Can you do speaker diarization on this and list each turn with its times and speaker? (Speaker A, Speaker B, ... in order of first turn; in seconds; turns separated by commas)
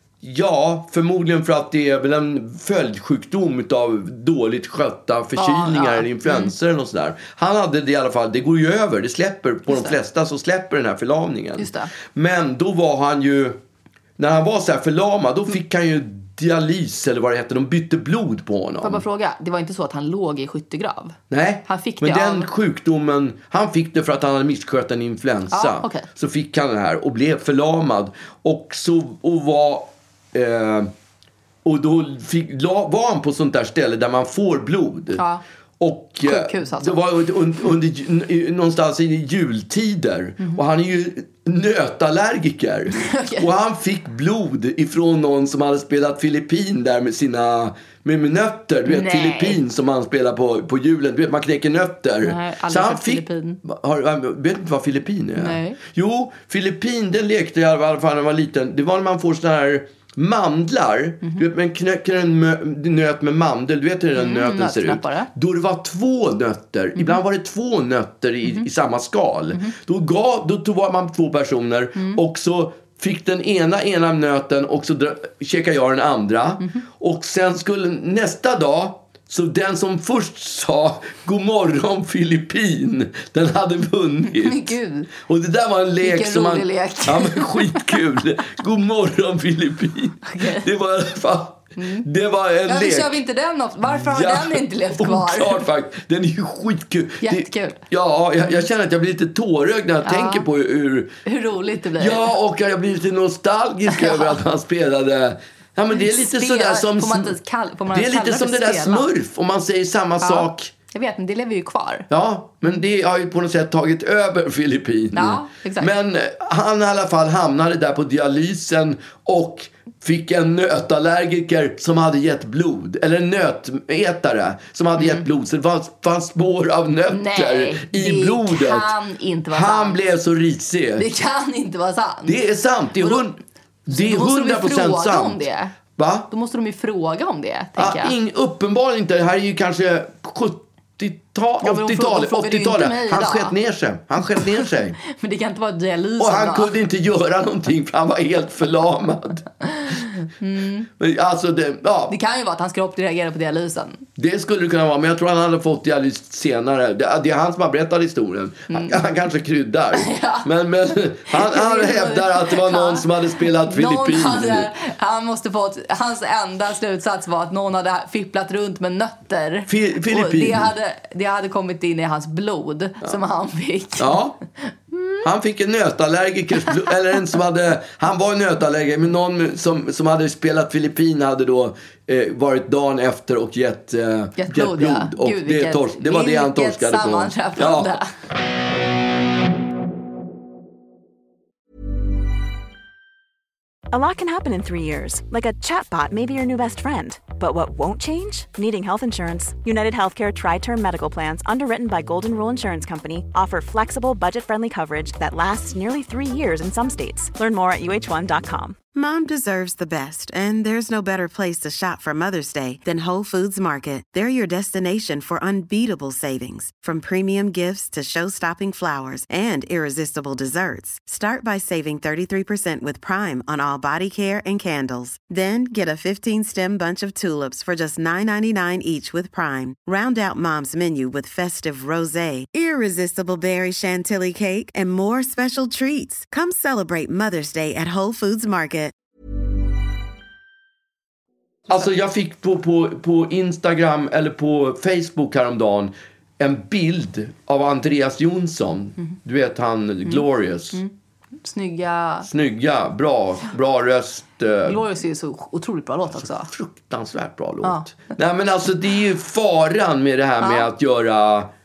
Speaker A: 0.2-13.6, Speaker B: 5.3-6.5, Speaker B: 9.7-10.0, Speaker B: 11.6-11.9, Speaker A: 14.2-19.0, Speaker B: 18.8-22.5, Speaker A: 21.3-30.9, Speaker B: 25.5-26.1, Speaker A: 31.6-35.2, Speaker B: 35.1-35.4, Speaker A: 35.8-93.2, Speaker B: 36.2-37.0, Speaker B: 42.9-43.5, Speaker B: 48.9-49.6, Speaker B: 52.2-53.6, Speaker B: 55.4-55.8, Speaker B: 64.1-65.3, Speaker B: 67.0-67.2, Speaker B: 84.3-85.1, Speaker B: 86.0-88.0, Speaker B: 90.3-90.7, Speaker B: 91.8-92.1, Speaker B: 92.7-95.7, Speaker A: 93.9-101.2, Speaker B: 97.2-97.8, Speaker B: 100.0-100.4, Speaker B: 101.2-102.3, Speaker A: 102.0-107.3, Speaker B: 103.9-104.4, Speaker B: 105.9-109.1, Speaker A: 107.9-110.7, Speaker B: 110.2-112.1, Speaker A: 112.1-128.9, Speaker B: 115.1-115.9, Speaker B: 125.0-125.2, Speaker B: 127.1-130.0, Speaker A: 129.5-131.0, Speaker B: 131.0-132.4, Speaker A: 132.2-133.4, Speaker B: 133.0-133.2, Speaker A: 133.9-135.4, Speaker B: 133.9-135.8, Speaker A: 135.9-136.3, Speaker B: 136.3-138.1, Speaker A: 137.8-145.0, Speaker B: 141.6-143.6, Speaker B: 144.3-146.7, Speaker A: 146.2-149.4, Speaker B: 149.6-150.9, Speaker A: 151.0-152.1, Speaker B: 152.1-154.0, Speaker A: 154.2-164.7, Speaker B: 158.7-159.0, Speaker B: 159.9-160.5, Speaker B: 161.3-175.3, Speaker A: 169.7-170.7, Speaker A: 174.0-174.4, Speaker A: 175.2-187.9, Speaker B: 184.4-188.1, Speaker C: 193.9-208.8, Speaker D: 208.9-238.9, Speaker A: 241.7-250.8, Speaker B: 250.0-250.9, Speaker B: 251.4-252.3, Speaker A: 252.2-254.8, Speaker B: 254.6-256.5, Speaker A: 256.2-261.5, Speaker B: 257.6-258.0, Speaker B: 260.4-260.7